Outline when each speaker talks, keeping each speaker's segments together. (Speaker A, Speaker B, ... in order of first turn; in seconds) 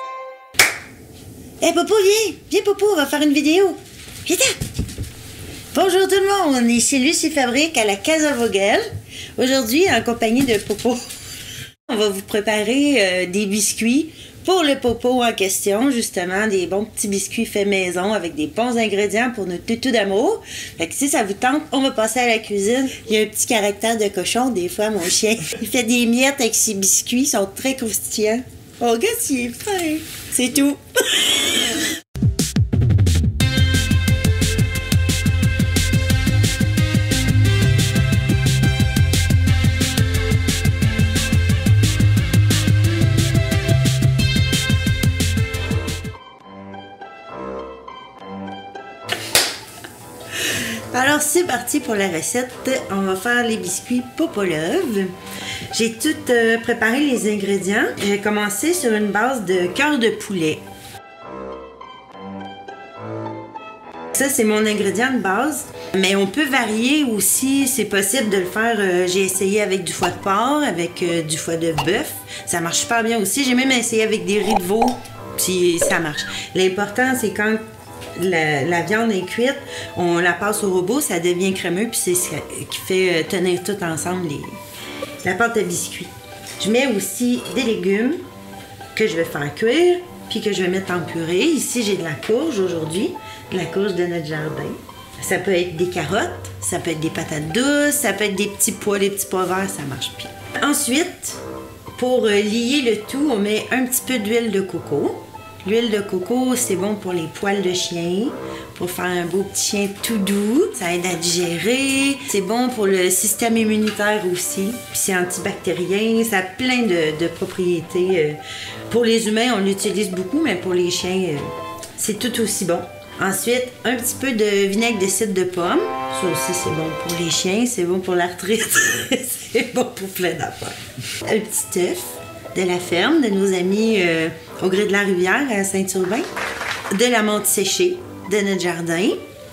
Speaker A: 1.6-4.5, 5.7-8.8, 9.4-11.0, 11.9-31.8, 50.9-55.1, 55.7-60.6, 64.1-77.6, 78.2-84.6, 85.2-88.2, 88.9-101.4, 101.9-136.2, 136.9-139.2